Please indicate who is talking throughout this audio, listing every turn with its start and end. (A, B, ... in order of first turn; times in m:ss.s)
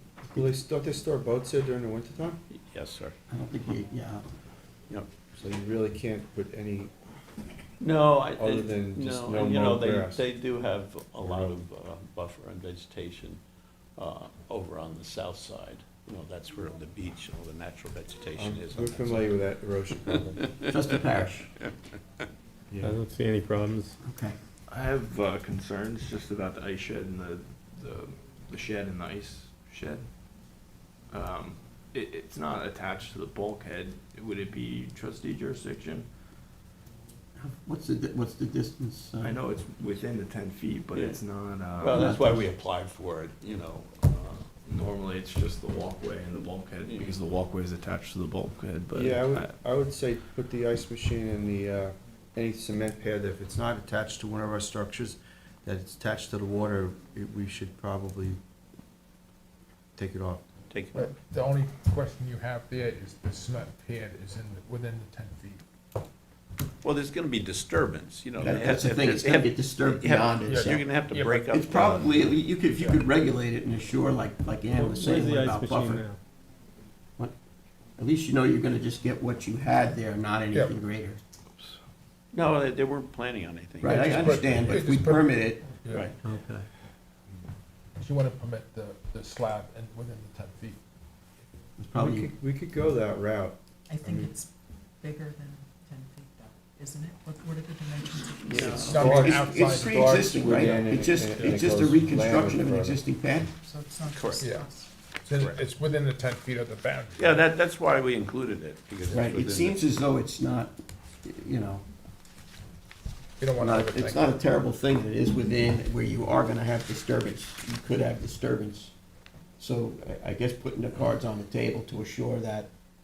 0:00.3-0:02.4 A
0:02.5-0:03.2 B
0:03.3-0:04.2 C
0:05.4-0:06.9 A
0:07.8-0:13.4 B
0:08.4-0:10.2 A
0:11.2-0:11.6 A
0:14.0-0:19.4 B
0:18.4-0:20.6 A
0:20.7-0:21.5 C
0:21.6-0:22.3 B
0:22.7-0:23.0 A
0:22.8-0:23.9 D
0:24.0-0:24.4 C
0:24.7-0:36.1 E
0:37.4-0:39.4 C
0:39.2-0:42.5 E
0:40.9-0:41.2 B
0:41.8-0:44.5 B
0:41.9-0:42.3 C
0:44.6-0:49.6 E
0:46.8-0:47.2 B
0:48.9-0:58.4 A
1:00.0-1:00.4 A
1:00.7-1:01.1 B
1:00.9-1:05.6 F
1:06.8-1:12.3 B
1:08.4-1:10.9 C
1:10.5-1:11.8 F
1:11.5-1:16.1 C
1:14.7-1:16.2 D
1:18.0-1:21.2 C
1:22.3-1:24.5 B
1:23.8-1:25.7 C
1:23.8-1:26.1 F
1:28.0-1:30.8 F
1:31.8-1:32.3 C
1:32.0-1:34.3 A
1:33.9-1:39.0 G
1:38.4-1:39.2 B
1:38.5-1:43.0 A
1:38.7-1:40.2 F
1:39.0-1:43.5 C
1:41.3-1:41.7 F
1:43.6-1:44.9 G
1:44.1-1:44.5 B
1:44.4-1:44.7 F
1:45.2-1:47.4 F
1:45.3-1:45.6 B
1:47.2-1:49.8 B
1:49.1-1:51.8 C
1:53.4-1:54.2 F
1:53.6-1:58.9 C
1:59.6-2:02.7 C